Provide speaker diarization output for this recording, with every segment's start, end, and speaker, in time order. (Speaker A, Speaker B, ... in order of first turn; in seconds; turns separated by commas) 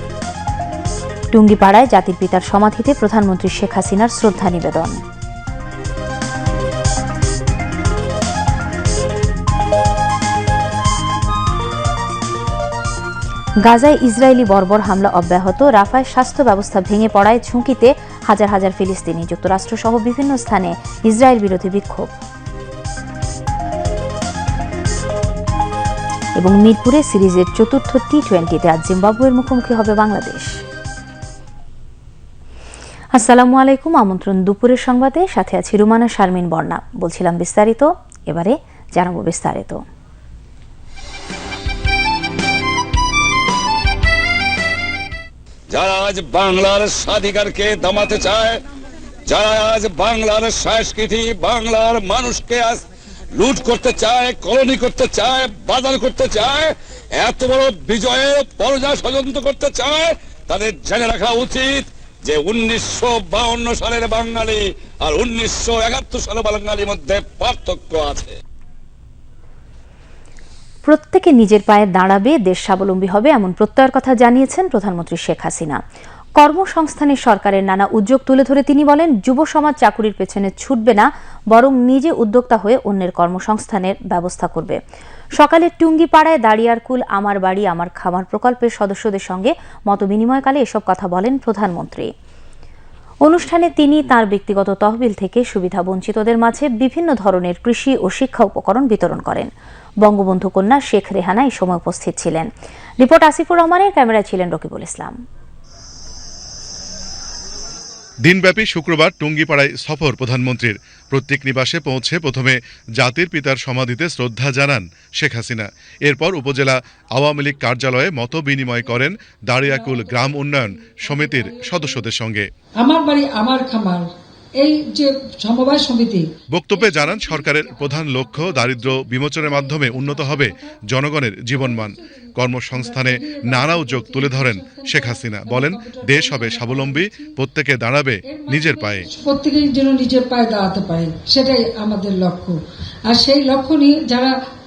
Speaker A: 1.3-5.0, Speaker A: 13.6-22.1, Speaker A: 26.4-30.6, Speaker A: 33.1-39.8, Speaker B: 45.7-48.6, Speaker B: 49.3-52.8, Speaker B: 53.4-68.3, Speaker A: 70.9-75.8, Speaker A: 76.4-84.8, Speaker A: 85.4-92.1, Speaker A: 93.2-99.5, Speaker A: 100.0-102.5, Speaker A: 103.0-105.2, Speaker C: 108.2-122.5, Speaker D: 118.6-119.0, Speaker D: 119.6-122.0, Speaker D: 122.8-124.1, Speaker D: 124.6-130.8, Speaker C: 126.5-139.1, Speaker D: 131.5-137.3, Speaker D: 138.3-142.6, Speaker D: 143.1-144.3